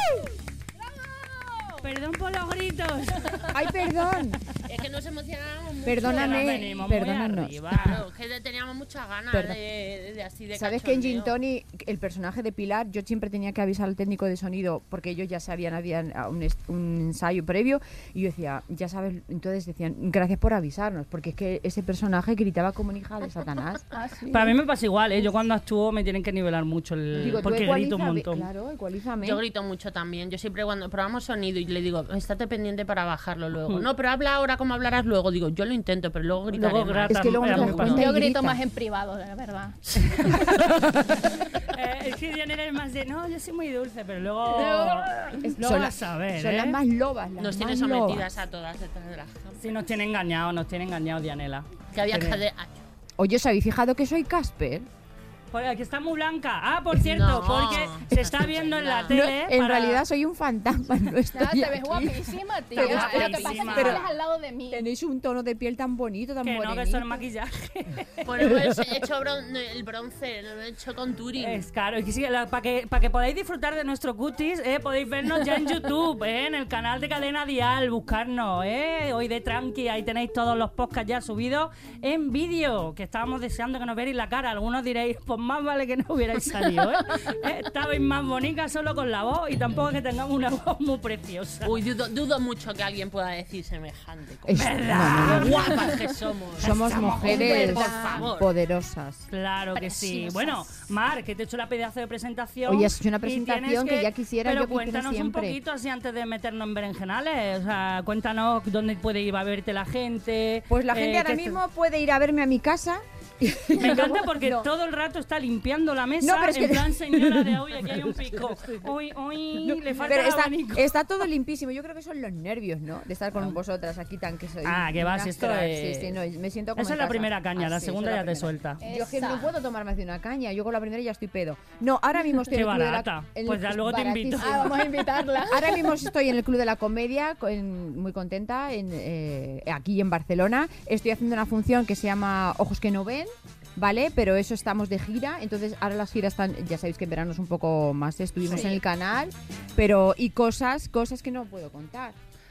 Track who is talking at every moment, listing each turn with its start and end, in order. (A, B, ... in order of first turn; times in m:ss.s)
0:01.8-0:03.6 A
0:03.5-0:04.4 B
0:04.6-0:06.8 C
0:05.8-0:07.6 B
0:06.0-0:08.0 A
0:07.7-0:11.3 C
0:09.3-0:09.6 B
0:10.5-0:23.8 B
0:23.9-0:24.6 D
0:24.3-0:28.4 A
0:27.1-0:27.5 C
0:27.2-0:29.4 B
0:29.2-0:38.0 C
0:36.5-0:38.1 A
0:37.1-0:38.6 B
0:38.0-0:39.8 D
0:39.9-0:40.3 C
0:40.0-0:46.8 A
0:44.5-0:45.5 D
0:45.4-0:48.3 B
0:47.4-0:49.6 C
0:49.6-0:52.4 A
0:51.9-0:52.8 C
0:53.2-0:54.8 B
0:55.5-1:00.0 A
0:57.0-0:59.3 C
0:59.1-1:04.1 B
1:01.3-1:04.8 D
1:02.7-1:04.0 A
1:04.7-1:07.1 B
1:06.4-1:08.3 A
1:08.2-1:11.6 C
1:08.4-1:08.8 B
1:11.4-1:31.8 A
1:31.6-1:38.5 C
1:34.4-1:35.8 B
1:34.5-1:36.0 A
1:36.6-1:39.2 B
1:36.6-1:37.3 A
1:37.1-1:38.2 D
1:39.3-1:51.6 A
1:39.7-1:40.7 D
1:42.6-1:45.6 B
1:50.7-1:54.7 B
1:53.8-2:00.8 A
1:56.2-1:58.6 B
1:59.5-2:32.1 B
2:04.6-2:06.1 A
2:06.8-2:08.8 A
2:08.8-2:09.5 D
2:12.5-2:14.7 A
2:14.4-2:16.0 D
2:28.5-2:28.8 D